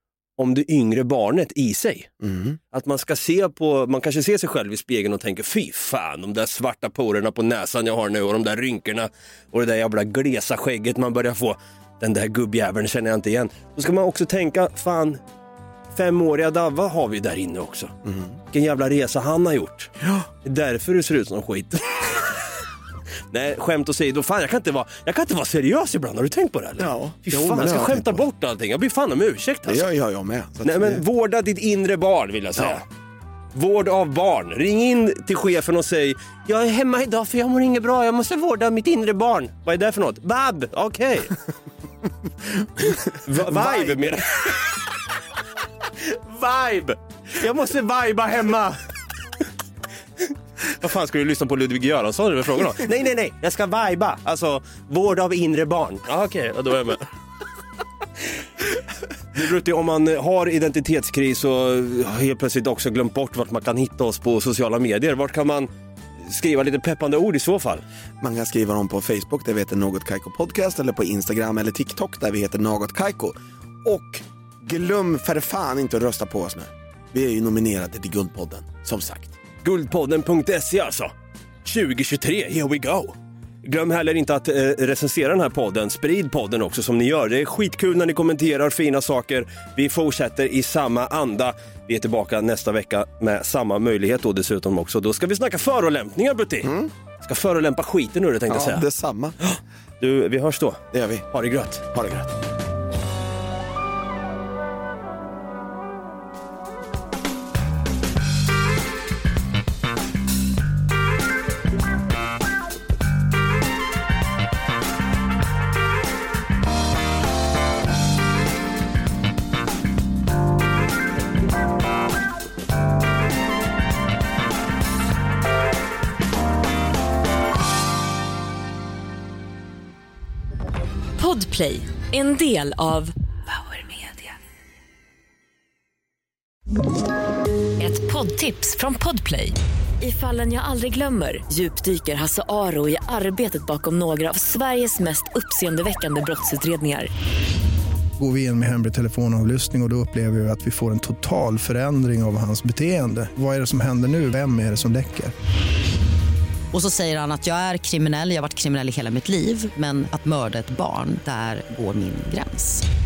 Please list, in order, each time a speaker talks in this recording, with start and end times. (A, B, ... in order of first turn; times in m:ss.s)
0:00.4-0:02.1 A
0:02.2-0:02.6 B
0:02.7-0:15.2 A
0:15.9-0:17.9 A
0:18.0-0:18.4 B
0:18.5-0:19.9 A
0:20.0-0:20.3 B
0:20.4-0:22.5 A
0:23.3-0:29.8 A
0:26.8-0:28.2 B
0:29.7-0:31.0 B
0:30.6-0:32.8 A
0:33.5-0:41.4 A
0:42.6-0:44.0 B
0:42.9-0:44.8 A
0:46.0-0:48.8 A
0:50.7-0:57.1 A
0:59.3-1:05.7 A
1:06.2-1:07.8 A
1:08.2-1:19.4 B
1:19.6-1:21.1 A
1:21.6-1:38.9 A
1:36.6-1:36.9 B
1:38.5-1:39.4 B
1:39.5-1:41.8 A
1:40.9-1:41.3 B
1:41.9-1:42.3 B
2:11.2-2:14.3 C
2:17.8-2:27.1 C
2:28.2-2:35.3 D
2:36.7-2:42.8 E